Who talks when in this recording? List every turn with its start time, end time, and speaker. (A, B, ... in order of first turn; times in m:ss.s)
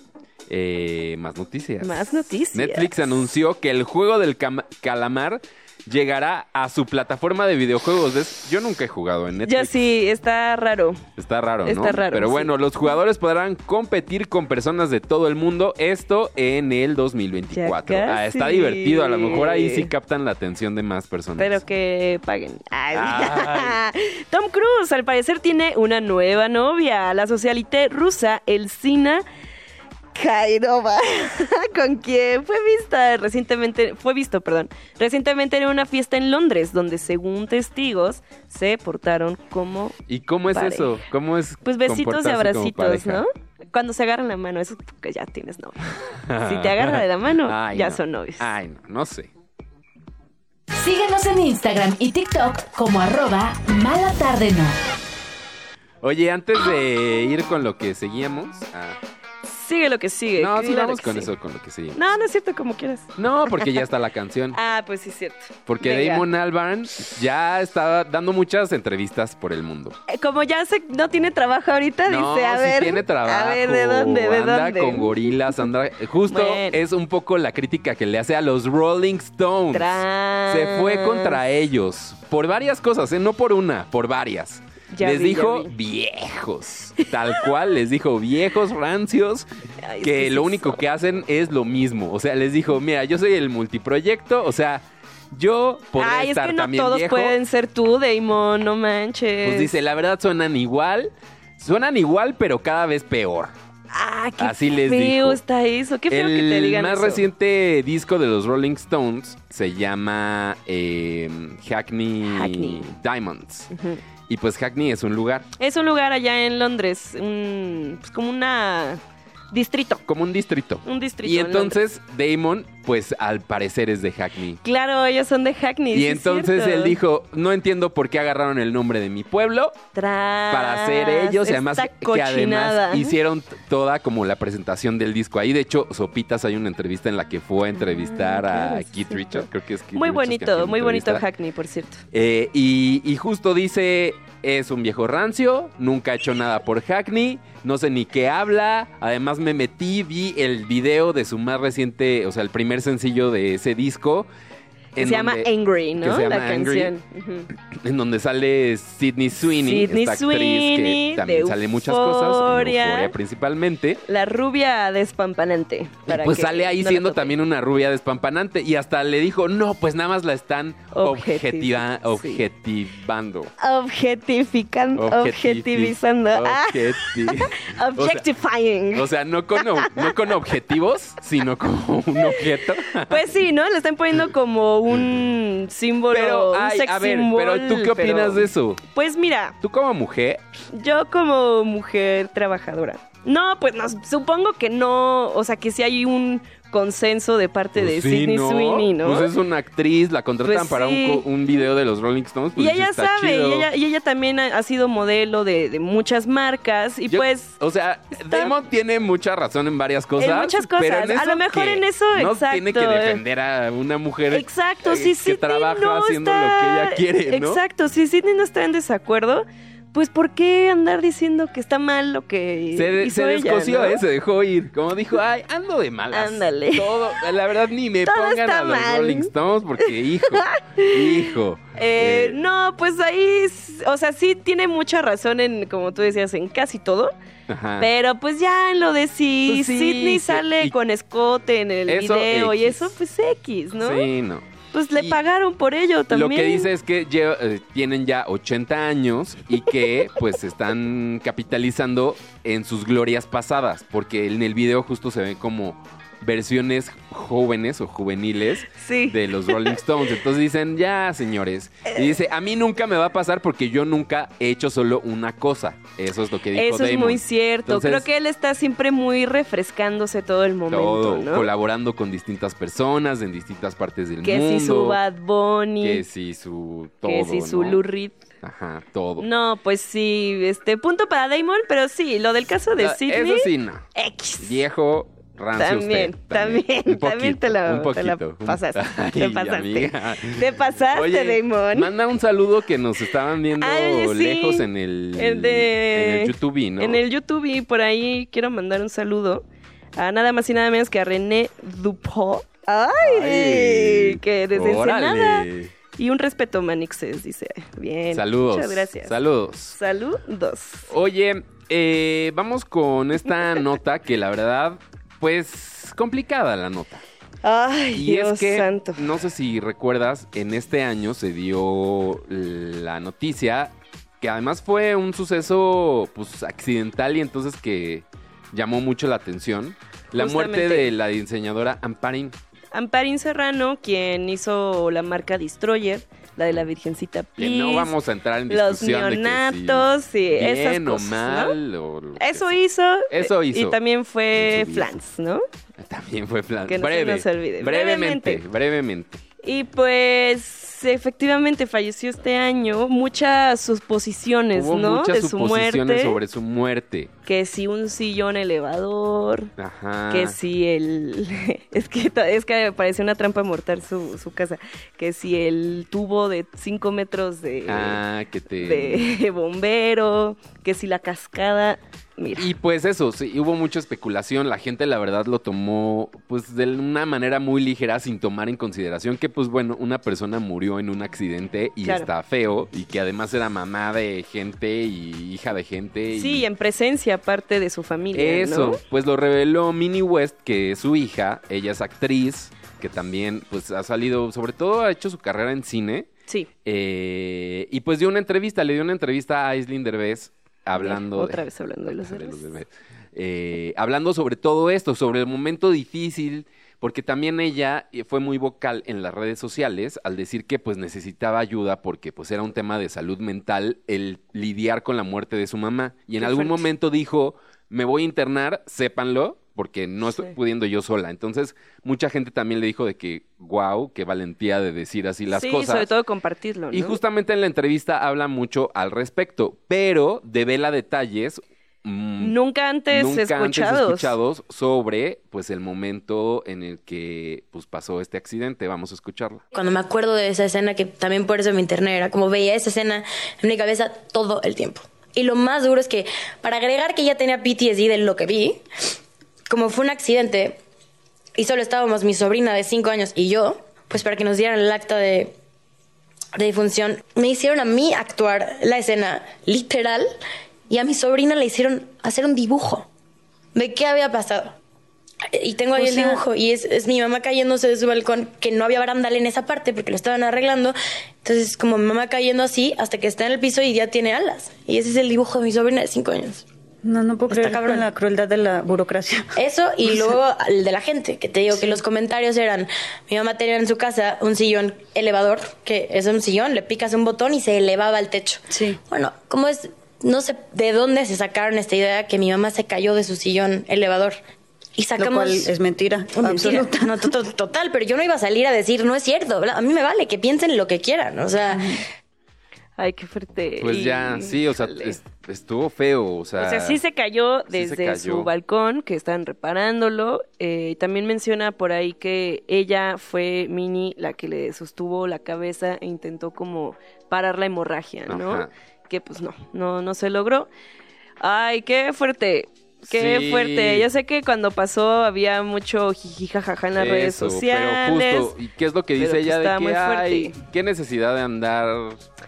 0:00.5-0:09.9 A
0:01.8-0:02.9 B
0:09.4-0:11.0 B
0:11.2-0:21.6 A
0:11.6-0:12.5 B
0:17.5-0:19.9 B
0:21.4-0:29.2 B
0:22.9-0:23.8 A
0:30.1-0:40.0 B
0:40.1-0:43.2 A
0:40.5-0:41.0 B
0:41.6-0:48.5 B
0:46.2-0:49.3 A
0:50.7-0:54.8 C
0:56.0-0:59.0 A
0:59.4-1:01.3 B
1:00.4-1:02.0 A
1:01.9-1:03.7 B
1:03.2-1:04.6 A
1:04.5-1:06.2 B
1:05.7-1:10.0 A
1:10.1-1:15.1 B
1:12.1-1:29.5 A
1:16.3-1:16.8 B
1:19.7-1:21.4 B
1:24.9-1:25.7 B
1:27.0-1:27.4 B
1:29.8-1:30.8 B
1:30.0-1:37.4 A
1:36.0-1:39.7 B
1:39.4-1:43.5 A
1:43.9-1:47.2 B
1:44.4-1:45.4 A
1:46.1-1:53.7 A
1:52.2-1:52.9 B
1:53.7-1:54.0 B
1:54.3-1:55.5 A
1:55.6-1:59.0 B
1:59.5-2:00.0 B
2:00.1-2:04.6 A
2:00.8-2:01.8 B
2:04.6-2:07.0 B
2:05.9-2:09.8 A
2:09.9-2:13.1 B
2:10.5-2:21.2 A
2:17.8-2:22.0 B
2:22.1-2:34.3 A
2:35.0-2:36.9 A
2:35.0-2:37.5 B
2:37.7-2:44.0 A
2:39.4-2:43.1 B
2:44.1-2:47.3 B
2:46.1-2:53.5 A
2:50.9-2:52.4 B
2:53.6-3:00.1 B
2:55.0-2:58.3 A
2:58.9-3:03.3 A
3:02.2-3:09.6 B
3:06.1-3:08.8 A
3:09.6-3:10.4 A
3:10.7-3:19.3 B
3:17.8-3:23.7 A
3:20.4-3:21.3 B
3:22.6-3:27.6 B
3:27.1-3:37.6 A
3:28.3-3:28.5 B
3:30.2-3:33.2 B
3:34.3-3:44.0 B
3:42.8-3:52.4 A
3:46.1-3:47.3 B
3:48.1-3:49.3 B
3:50.2-3:57.1 B
3:57.5-3:57.9 A
3:57.8-4:04.1 B
3:59.5-4:00.8 A
4:01.9-4:02.9 A
4:03.8-4:05.2 A
4:04.7-4:06.7 B
4:06.1-4:28.1 A
4:18.8-4:19.8 B
4:21.9-4:22.1 B
4:26.5-4:31.5 B
4:30.7-4:35.0 A
4:34.2-4:36.0 B
4:35.8-4:37.8 A
4:37.0-4:38.2 B
4:38.4-4:39.3 A
4:39.2-4:44.6 B
4:42.8-4:43.9 A
4:44.4-4:57.0 A
4:45.6-4:51.9 B
4:53.6-4:54.6 B
4:55.2-4:59.4 B
5:00.0-5:09.2 B
5:03.0-5:05.7 A
5:08.1-5:09.8 A
5:09.8-5:10.9 B
5:10.9-5:17.0 A
5:17.4-5:19.0 B
5:17.9-5:32.4 A
5:30.1-5:30.9 B
5:32.7-5:37.9 B
5:37.4-5:42.5 A
5:38.5-5:41.6 B
5:42.2-5:45.4 B
5:43.1-5:43.8 A
5:44.4-5:44.9 A
5:45.8-5:49.2 A
5:46.7-5:48.4 B
5:49.4-5:56.2 B
5:54.5-5:57.1 A
5:57.3-5:59.5 B
5:59.6-6:00.4 A
6:00.1-6:08.0 B
6:07.7-6:09.1 A
6:08.6-6:12.5 B
6:12.4-6:26.5 A
6:26.1-6:28.8 B
6:28.1-6:36.1 A
6:36.6-7:05.9 A
6:40.8-6:42.4 B
6:56.2-6:56.6 B
7:05.3-7:07.0 B
7:06.7-7:12.4 A
7:12.2-7:14.1 B
7:12.9-7:19.4 A
7:19.5-7:28.6 D
7:29.5-7:30.6 D
7:31.4-7:35.4 D
7:36.4-7:40.2 D
7:40.7-7:42.9 D
7:43.6-7:44.6 D
7:45.3-7:56.4 D
7:45.8-7:46.2 E
7:56.8-7:59.3 E
7:57.3-7:57.8 D
7:59.4-8:14.2 D
7:59.8-8:00.1 E
8:01.5-8:01.8 E
8:08.5-8:08.8 E
8:14.8-8:15.5 D
8:15.0-8:17.1 E
8:16.1-8:21.8 D
8:22.8-8:25.0 B
8:23.6-8:26.8 A
8:26.4-8:40.5 B
8:27.5-8:28.3 A
8:38.1-8:38.5 A
8:41.2-8:48.3 B
8:42.9-8:43.9 A
8:46.8-8:52.1 A
8:49.0-8:50.4 B